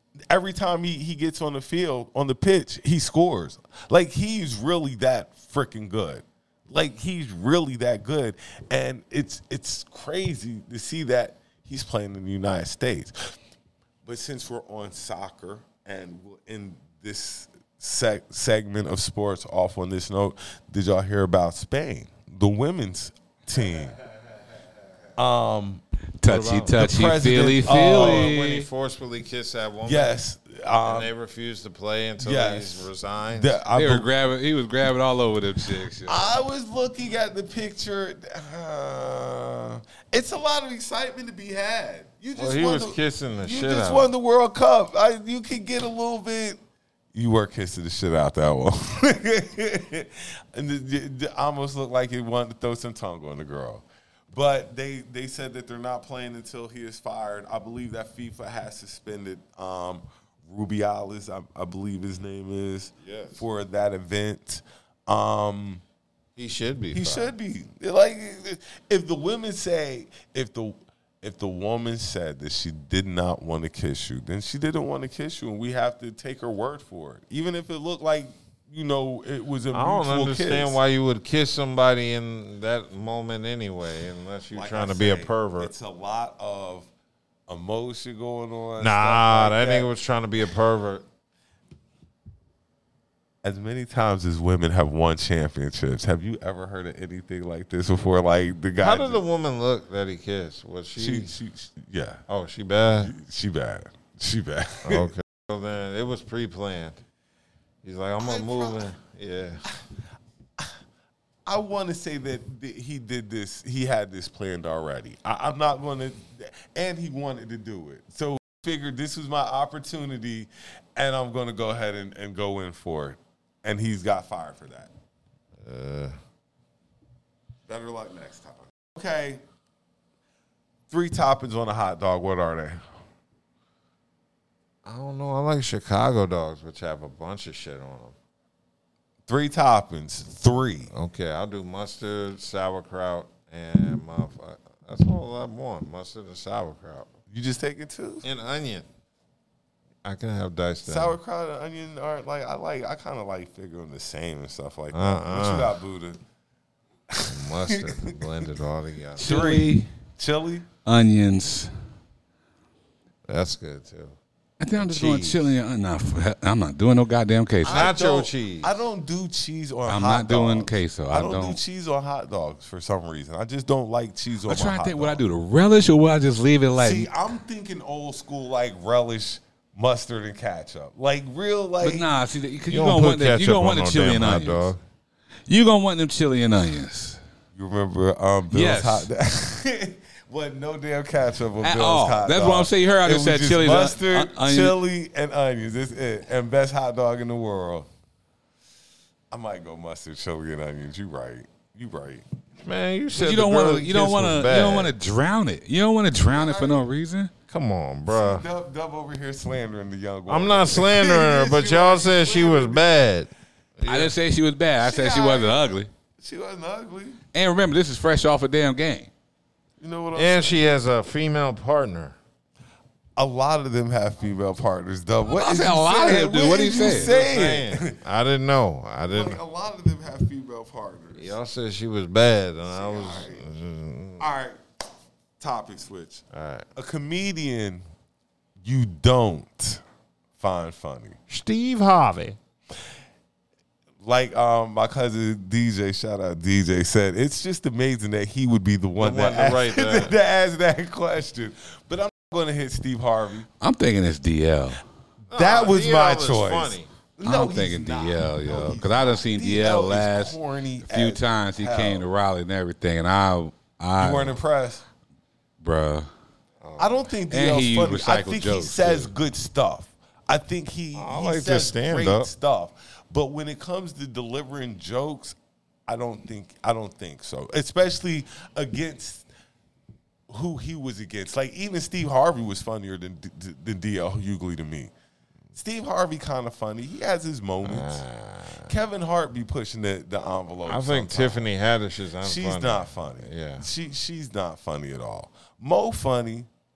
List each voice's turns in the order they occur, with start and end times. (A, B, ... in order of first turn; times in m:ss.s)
0:00.3-0:13.3 A
0:14.0-0:24.0 A
0:25.2-0:25.8 A
0:26.2-0:28.7 B
0:26.3-0:26.8 C
0:26.7-0:28.4 A
0:27.6-0:30.2 C
0:29.8-0:31.1 A
0:30.8-0:33.6 C
0:32.2-0:34.1 A
0:33.7-0:36.3 B
0:36.1-0:46.6 A
0:42.4-0:44.1 C
0:47.1-1:05.8 A
1:03.0-1:03.4 C
1:06.4-1:07.3 C
1:06.9-1:20.8 A
1:19.7-1:25.7 C
1:24.5-1:26.9 A
1:27.5-1:29.9 A
1:28.8-1:31.0 C
1:33.4-1:39.2 A
1:38.8-1:41.4 C
1:41.0-1:42.2 A
1:42.3-1:43.1 C
1:43.0-1:45.1 A
1:44.8-1:47.0 C
1:47.8-1:49.6 C
1:48.2-1:48.9 A
1:51.5-2:04.9 A
2:05.6-2:06.2 C
2:07.7-2:09.4 A
2:10.9-2:12.9 A
2:14.8-2:18.2 C
2:19.3-2:20.9 A
2:20.9-2:27.1 C
2:27.3-2:28.2 A
2:28.2-2:28.9 C
2:30.0-2:31.2 C
2:30.9-2:36.2 A
2:34.9-2:35.8 C
2:37.1-2:38.5 A
2:37.2-2:39.4 C
2:39.2-2:40.7 A
2:39.2-2:39.9 B
2:40.8-2:41.7 B
2:43.3-2:44.2 C
2:44.6-2:47.9 B
2:44.8-2:45.5 C
2:47.6-2:48.7 C
2:47.6-2:55.2 A
2:49.9-2:51.6 B
2:54.4-2:57.3 B
2:56.8-3:02.1 A
3:01.8-3:04.7 B
3:02.7-3:04.8 C
3:05.5-3:07.2 B
3:07.6-3:17.9 A
3:08.5-3:09.1 B
3:11.6-3:14.8 B
3:19.3-3:22.2 A
3:22.6-3:24.9 C
3:23.2-3:27.3 B
3:26.2-3:26.9 A
3:27.5-3:28.4 C
3:28.1-3:33.0 A
3:30.3-3:34.1 C
3:33.9-3:35.9 B
3:34.8-3:37.2 A
3:37.3-3:39.1 B
3:39.8-3:40.7 A
3:40.1-3:42.2 C
3:43.2-3:48.0 A
3:45.2-3:47.1 B
3:46.8-3:49.4 C
3:49.1-3:51.4 A
3:51.1-3:54.3 C
3:52.6-3:53.5 A
3:54.2-3:54.6 A
3:55.4-3:56.2 A
3:56.3-3:56.7 C
3:56.8-3:57.8 A
3:58.6-3:59.8 A
4:00.4-4:01.2 A
4:01.3-4:02.4 C
4:04.0-4:13.5 A
4:09.0-4:10.2 C
4:13.6-4:14.8 B
4:15.3-4:16.9 C
4:15.3-4:22.0 A
4:17.2-4:24.4 B
4:24.0-4:24.8 A
4:25.6-4:26.1 B
4:26.6-4:27.1 C
4:26.8-4:39.3 A
4:27.3-4:29.1 B
4:31.0-4:32.3 C
4:40.3-4:44.9 A
4:45.6-4:48.0 A
4:47.6-4:48.7 C
4:48.7-4:51.4 A
4:50.7-4:53.7 C
4:52.2-4:56.5 A